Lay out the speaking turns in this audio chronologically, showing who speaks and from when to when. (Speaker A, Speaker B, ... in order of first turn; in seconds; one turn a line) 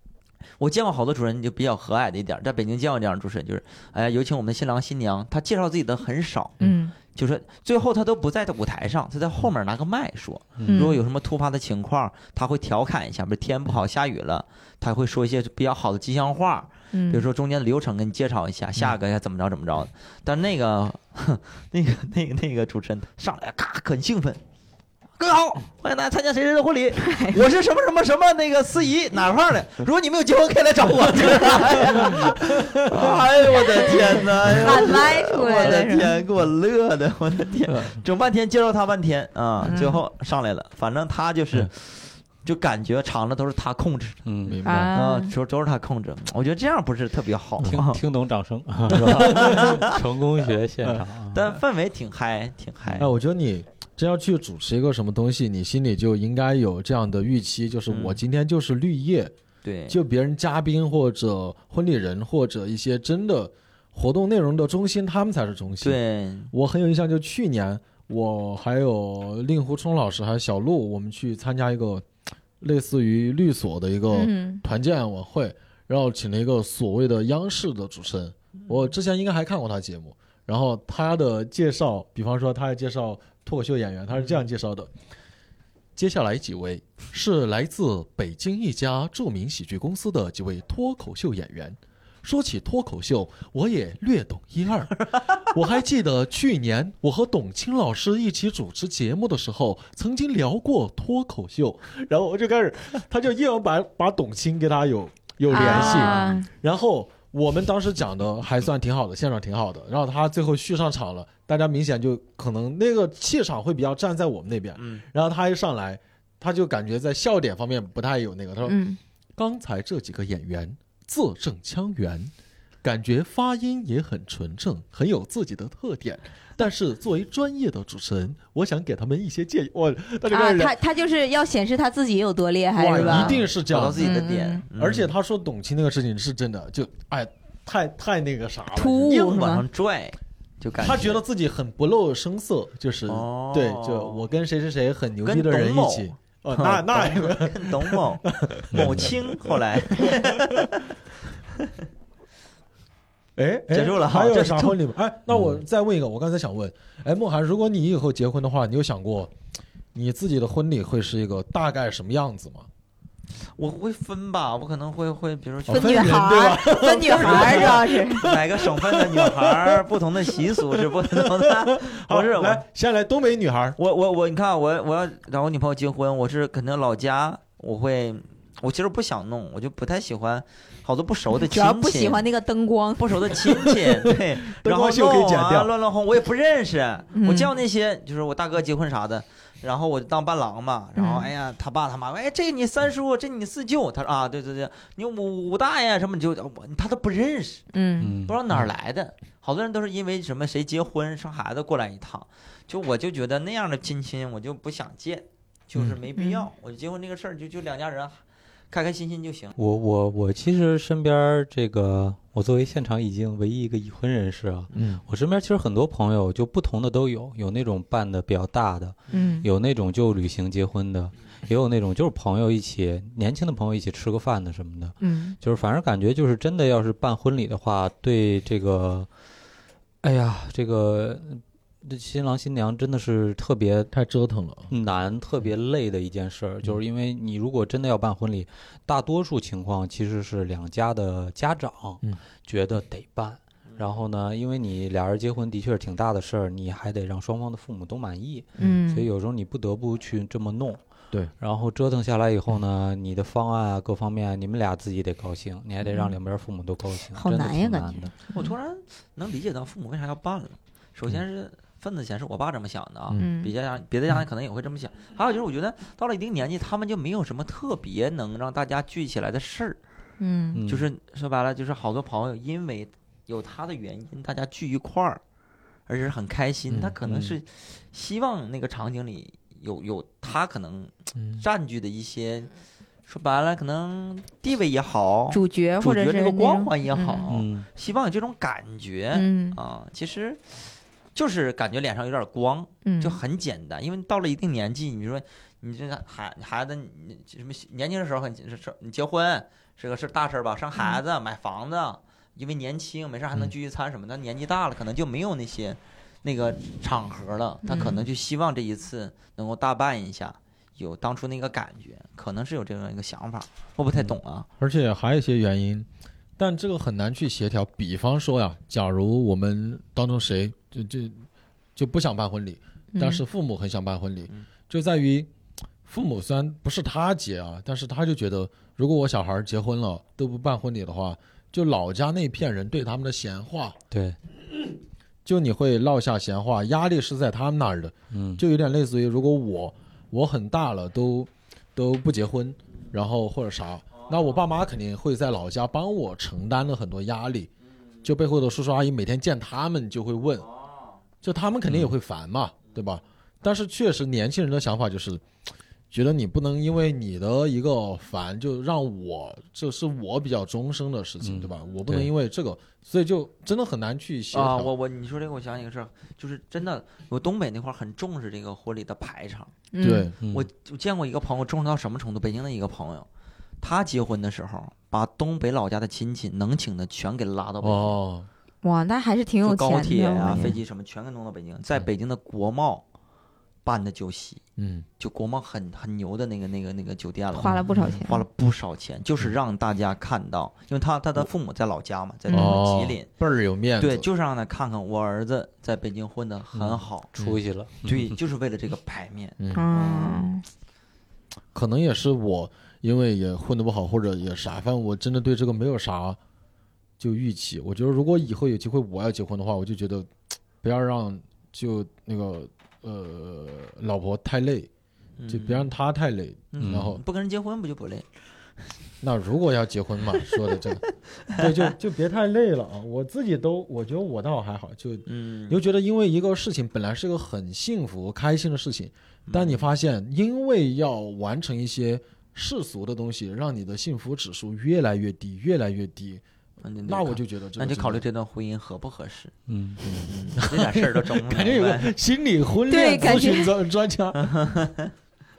Speaker A: 0.6-24.4
Speaker B: 6.6-6.9
Speaker C: 10.6-10.8
Speaker B: 10.7-11.0
Speaker B: 16.9-17.2
Speaker A: 25.2-44.2
Speaker B: 27.0-27.4
Speaker B: 34.6-36.1
Speaker B: 39.6-40.0
Speaker C: 44.2-44.6
Speaker D: 44.5-45.0
Speaker B: 44.6-45.3
Speaker A: 44.9-48.0
Speaker C: 47.6-51.4
Speaker A: 48.9-50.0
Speaker D: 49.0-49.7
Speaker A: 51.3-53.1
Speaker D: 53.0-59.3
Speaker A: 57.9-58.2
Speaker A: 59.6-60.0
Speaker D: 59.9-66.0
Speaker A: 65.8-66.5
Speaker D: 66.5-72.0
Speaker D: 72.6-84.9
Speaker B: 74.1-74.6
Speaker D: 86.0-118.8
Speaker B: 105.5-106.5
Speaker A: 105.5-106.4
Speaker A: 114.8-115.0
Speaker B: 118.6-119.0
Speaker D: 119.4-122.3
Speaker D: 122.8-130.8
Speaker B: 130.3-133.4
Speaker D: 132.7-134.1
Speaker A: 133.0-135.1
Speaker B: 134.0-134.6
Speaker D: 134.7-139.4
Speaker B: 138.7-139.6
Speaker A: 139.1-141.2
Speaker D: 140.8-150.7
Speaker A: 143.1-144.2
Speaker A: 145.2-150.9
Speaker C: 148.7-149.1
Speaker D: 153.4-159.3
Speaker A: 153.7-154.8
Speaker C: 155.3-155.6
Speaker D: 159.9-162.7
Speaker A: 163.6-172.6
Speaker D: 165.7-173.8
Speaker B: 165.7-168.3
Speaker A: 173.8-182.2
Speaker B: 181.3-183.4
Speaker A: 183.0-197.7
Speaker D: 183.5-185.7
Speaker B: 187.1-187.5
Speaker B: 190.9-191.3
Speaker B: 197.7-198.1
Speaker C: 198.0-198.7
Speaker A: 198.2-209.5
Speaker B: 206.2-206.5
Speaker C: 209.6-229.1
Speaker D: 214.7-215.0
Speaker B: 219.1-219.5
Speaker B: 225.0-225.3
Speaker C: 230.0-233.9
Speaker D: 233.9-234.7
Speaker C: 234.7-250.8
Speaker B: 248.6-249.1
Speaker C: 251.4-258.1
Speaker B: 255.8-256.1
Speaker B: 257.1-258.2
Speaker A: 258.3-269.8
Speaker B: 263.2-263.5
Speaker B: 270.2-270.6
Speaker C: 270.5-270.9
Speaker A: 270.6-275.2
Speaker A: 275.9-282.5
Speaker D: 276.7-276.9
Speaker C: 277.0-277.4
Speaker D: 281.1-281.4
Speaker A: 283.1-290.4
Speaker B: 285.3-287.2
Speaker C: 287.3-287.7
Speaker B: 289.1-289.6
Speaker A: 291.1-314.5
Speaker B: 292.8-293.2
Speaker B: 307.7-308.0
Speaker D: 314.6-315.9
Speaker D: 316.4-321.2
Speaker D: 321.8-325.3
Speaker B: 322.9-323.2
Speaker D: 325.9-333.8
Speaker D: 335.2-347.5
Speaker C: 338.1-338.4
Speaker D: 348.0-350.5
Speaker D: 351.2-355.2
Speaker C: 351.7-351.9
Speaker D: 355.9-364.7
Speaker C: 361.2-362.1
Speaker A: 364.3-369.5
Speaker B: 369.7-370.1
Speaker D: 369.8-370.2
Speaker C: 370.2-370.5
Speaker A: 370.2-373.1
Speaker A: 373.6-378.0
Speaker D: 377.6-378.3
Speaker B: 378.6-380.6
Speaker A: 379.4-382.8
Speaker A: 383.6-384.4
Speaker D: 384.6-384.9
Speaker A: 385.0-393.1
Speaker B: 387.4-388.2
Speaker D: 387.4-387.9
Speaker B: 392.3-392.6
Speaker D: 392.3-394.1
Speaker A: 393.8-397.2
Speaker C: 396.5-398.2
Speaker A: 397.8-400.3
Speaker D: 399.4-399.7
Speaker B: 399.5-400.4
Speaker D: 401.5-406.2
Speaker D: 407.0-410.1
Speaker D: 410.6-414.7
Speaker A: 415.2-415.7
Speaker D: 415.3-417.0
Speaker A: 416.5-418.1
Speaker C: 416.6-416.9
Speaker D: 419.0-436.2
Speaker A: 425.1-425.6
Speaker A: 429.3-429.6
Speaker A: 436.6-439.4
Speaker D: 436.8-438.0
Speaker C: 439.5-439.8
Speaker D: 439.8-444.5
Speaker A: 440.0-441.9
Speaker B: 442.7-443.5
Speaker A: 444.2-444.9